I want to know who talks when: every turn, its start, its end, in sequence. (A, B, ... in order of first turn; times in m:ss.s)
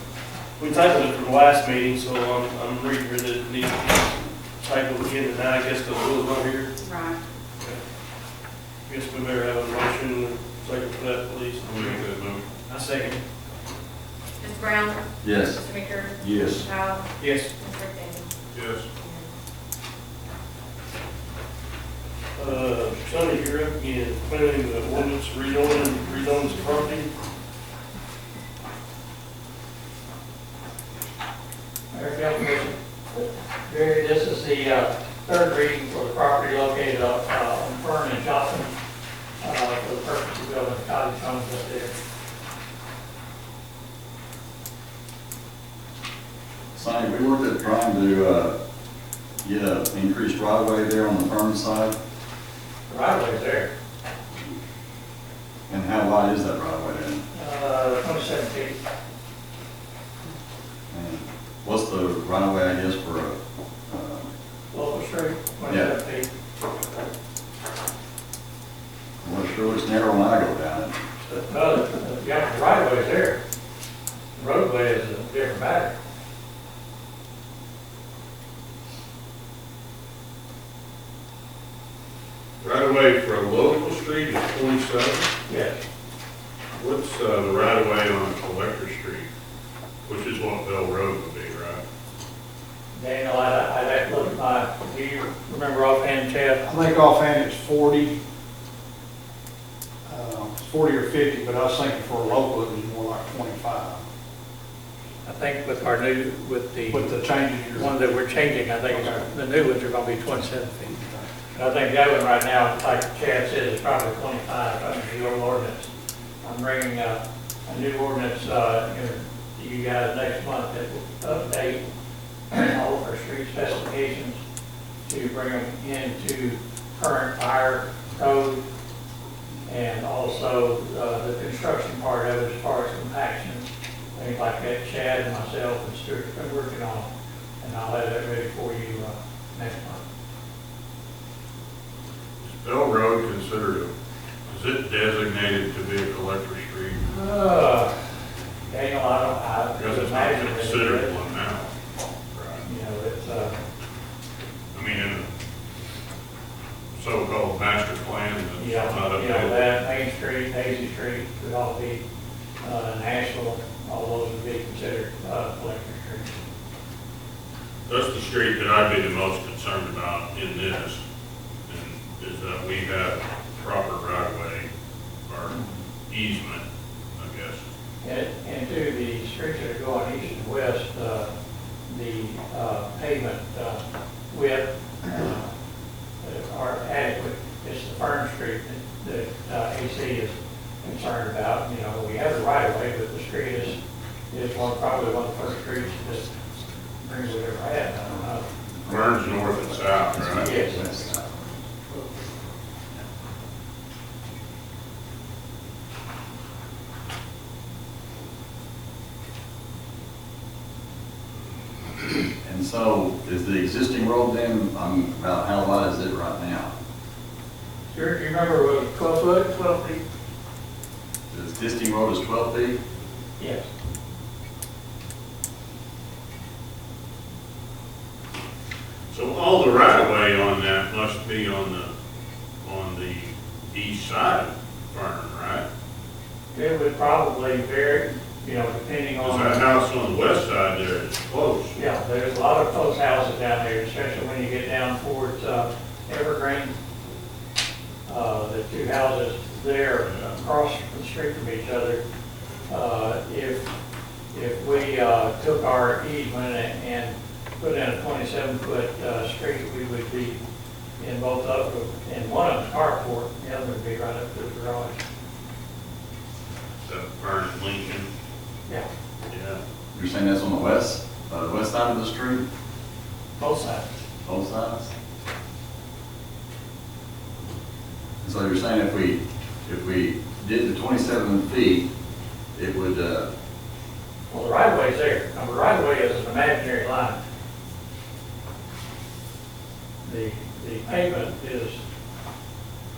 0:00.6-0:06.7 A
0:06.8-0:07.2 B
0:08.8-0:12.0 A
0:11.6-0:12.5 C
0:12.7-0:13.2 A
0:14.4-0:17.0 B
0:15.2-0:15.6 D
0:16.2-0:16.7 D
0:17.2-0:17.5 A
0:17.6-0:18.3 B
0:18.5-0:18.9 C
0:19.0-0:19.3 B
0:22.4-0:27.1 A
0:31.9-0:38.7 E
0:39.4-0:41.9 E
0:46.7-0:48.5 D
0:49.4-0:51.9 D
0:52.9-0:53.7 E
0:55.7-0:57.2 D
0:57.3-0:58.8 E
1:00.9-1:04.3 D
1:04.7-1:06.3 E
1:09.2-1:11.0 D
1:11.3-1:13.4 E
1:14.3-1:15.9 E
1:22.6-1:25.3 C
1:25.5-1:25.8 E
1:26.8-1:29.3 C
1:30.0-1:31.8 C
1:32.9-1:36.6 E
1:36.6-1:38.2 F
1:40.0-1:44.0 F
1:45.2-1:47.1 E
1:46.9-1:47.9 F
1:47.7-1:50.9 E
1:48.9-1:49.3 F
1:50.9-1:51.2 F
1:51.5-1:55.9 E
1:56.4-2:01.8 E
2:02.5-2:04.4 E
2:05.0-2:08.6 E
2:09.6-2:17.1 E
2:17.6-2:20.0 E
2:22.4-2:23.9 C
2:24.5-2:27.0 C
2:27.1-2:27.9 E
2:28.7-2:31.1 E
2:29.7-2:31.7 C
2:32.3-2:32.6 C
2:32.6-2:33.6 E
2:34.7-2:35.3 C
2:36.9-2:39.6 C
2:38.6-2:42.0 E
2:42.6-2:46.3 E
2:47.9-2:51.0 C
2:51.7-2:54.7 C
2:55.3-2:55.6 C
2:56.1-2:56.6 C
2:57.2-2:57.6 C
2:58.0-3:01.3 E
3:01.9-3:05.5 E
3:06.2-3:13.8 E
3:14.3-3:16.3 E
3:17.0-3:18.4 E
3:18.8-3:20.6 C
3:20.4-3:20.8 E
3:20.4-3:21.2 D
3:32.4-3:36.7 D
3:37.9-3:40.0 E
3:41.3-3:42.8 D
3:43.4-3:43.6 E
3:49.1-3:51.9 C
3:52.6-3:55.6 C
3:56.5-3:59.6 E
3:59.2-4:01.7 C
4:01.7-4:06.7 E
4:08.0-4:12.0 E
4:10.0-4:10.4 C
4:12.7-4:13.7 E
4:14.3-4:20.4 E
4:21.0-4:25.0 E
4:26.8-4:28.1 C
4:29.3-4:29.6 C
4:29.9-4:32.4 D
4:33.4-4:33.9 E
4:34.2-4:34.9 D
4:38.2-4:41.9 D
4:42.5-4:43.3 D
4:44.3-4:47.2 E
4:50.0-4:51.8 E